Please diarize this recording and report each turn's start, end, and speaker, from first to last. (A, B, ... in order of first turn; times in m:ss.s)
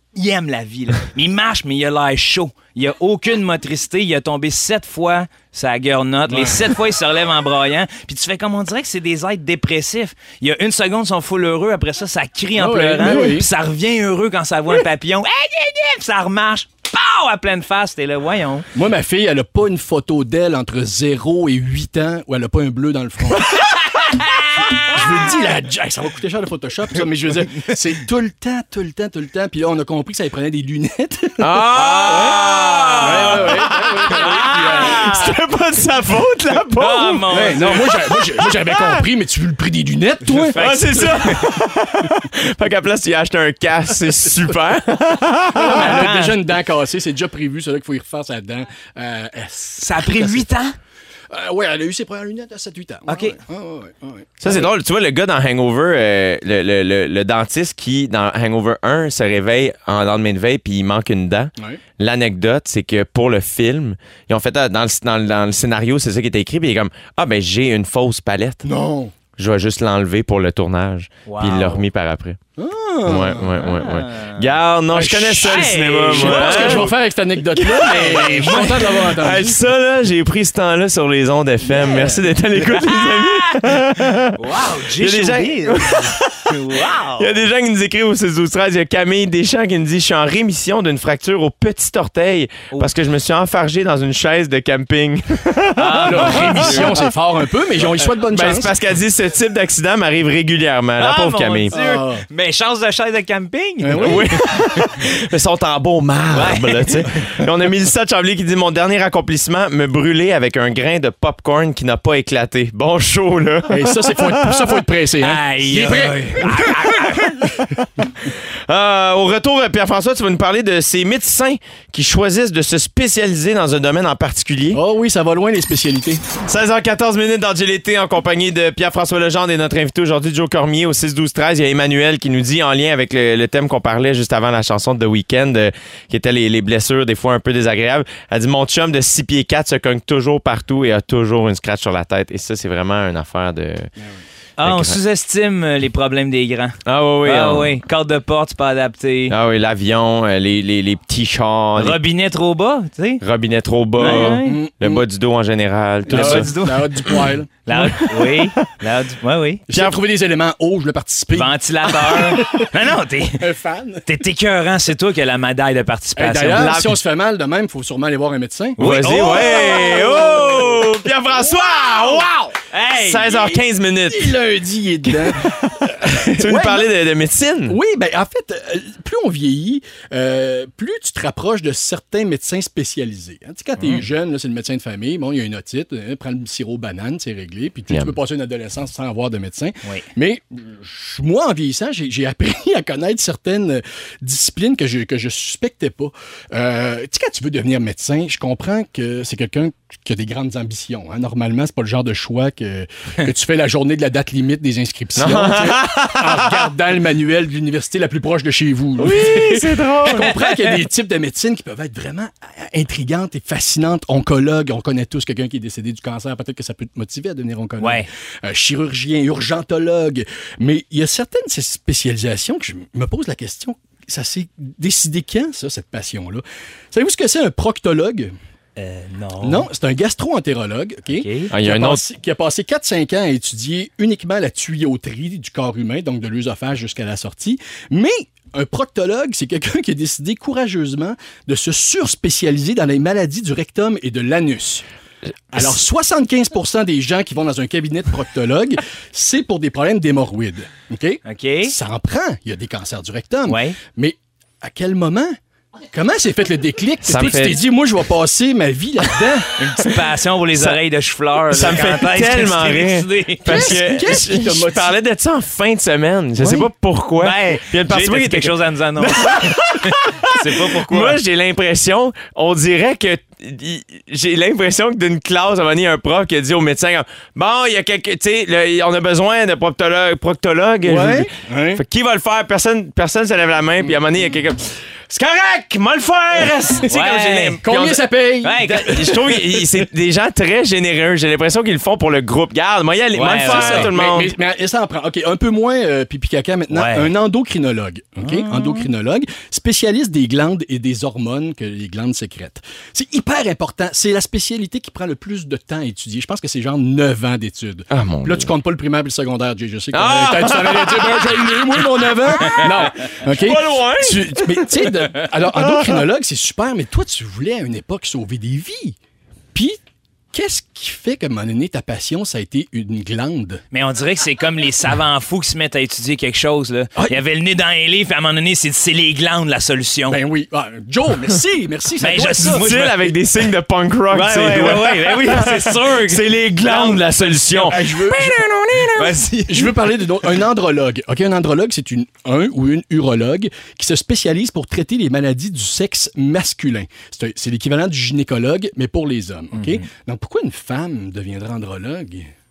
0:00.2-0:18.7 A
0:06.3-0:06.7 B
0:12.6-0:13.5 B
0:18.8-0:23.8 B
0:23.5-0:25.0 A
0:24.7-0:35.2 B
0:31.4-0:39.1 C
0:31.7-0:35.3 A
0:36.8-0:37.9 A
0:37.3-0:41.2 B
0:40.3-0:41.5 A
0:40.5-0:46.0 C
0:44.2-0:44.5 B
0:45.5-0:50.4 B
0:45.7-0:46.4 A
0:49.8-0:50.8 A
0:51.3-0:54.7 B
0:53.1-0:53.4 A
0:54.4-1:08.6 C
1:08.6-1:09.1 B
1:09.4-1:12.4 C
1:11.3-1:11.8 A
1:12.6-1:13.7 B
1:13.0-1:16.9 C
1:13.6-1:14.5 A
1:14.9-1:19.6 B
1:15.4-1:16.9 A
1:17.6-1:26.6 C
1:17.9-1:19.0 A
1:21.7-1:22.2 B
1:22.9-1:23.4 A
1:24.3-1:27.5 A
1:27.2-1:37.1 C
1:35.8-1:37.0 A
1:36.0-1:38.8 B
1:38.2-1:41.8 C
1:41.0-1:44.8 A
1:41.7-1:42.2 B
1:43.8-1:44.3 B
1:44.0-1:54.7 C
1:46.3-1:47.2 A
1:53.7-1:57.6 B
1:55.2-1:57.4 A
1:58.7-2:04.8 C
2:04.7-2:06.2 B
2:06.5-2:23.9 C
2:24.6-2:29.4 A
2:24.6-2:25.0 C
2:26.9-2:27.8 C
2:29.3-2:32.0 C
2:31.8-2:33.2 A
2:33.2-2:36.5 C
2:34.0-2:34.6 A
2:34.0-2:35.0 B
2:36.1-2:38.2 B
2:36.1-2:37.1 A
2:37.7-2:39.6 A
2:39.7-2:44.2 B
2:39.7-2:40.0 C
2:41.3-2:43.5 A
2:44.1-2:46.8 A
2:46.2-2:48.8 B
2:46.5-2:47.0 C
2:48.8-2:50.6 A
2:48.8-2:54.4 C
2:49.3-2:50.8 B
2:51.4-2:52.4 B
2:52.7-2:53.3 A
2:53.3-2:56.9 B
2:56.0-2:57.8 C
2:57.7-3:48.3 B
3:07.9-3:08.2 C
3:25.2-3:26.6 C
3:29.0-3:30.4 C
3:37.8-3:38.1 A
3:48.8-3:49.7 A
3:49.4-4:04.8 B
3:51.1-3:51.5 A
3:51.5-3:52.0 C
4:05.5-4:15.4 B
4:11.3-4:11.7 A
4:13.5-4:13.8 A
4:15.9-4:19.5 B
4:17.0-4:17.6 C
4:19.5-4:24.0 A
4:20.6-4:20.8 C
4:21.5-4:54.3 C
4:23.5-4:25.0 B
4:27.2-4:31.2 A
4:40.8-4:41.8 B
4:46.9-4:47.6 A
4:47.6-4:49.4 B
4:48.4-4:49.0 A
4:53.1-4:53.9 A
4:53.3-5:19.0 B
4:56.7-4:57.1 A
4:58.2-4:58.9 A
5:07.9-5:08.5 C
5:09.9-5:12.1 C
5:12.6-5:14.6 C
5:15.5-5:16.0 C
5:20.3-5:23.6 B
5:23.7-5:30.2 A
5:30.1-5:32.7 B
5:32.0-5:33.1 A
5:32.4-5:39.2 C
5:34.1-5:37.9 A
5:37.7-5:38.4 B
5:38.8-5:39.8 A
5:39.5-5:52.3 B
5:49.5-5:49.8 A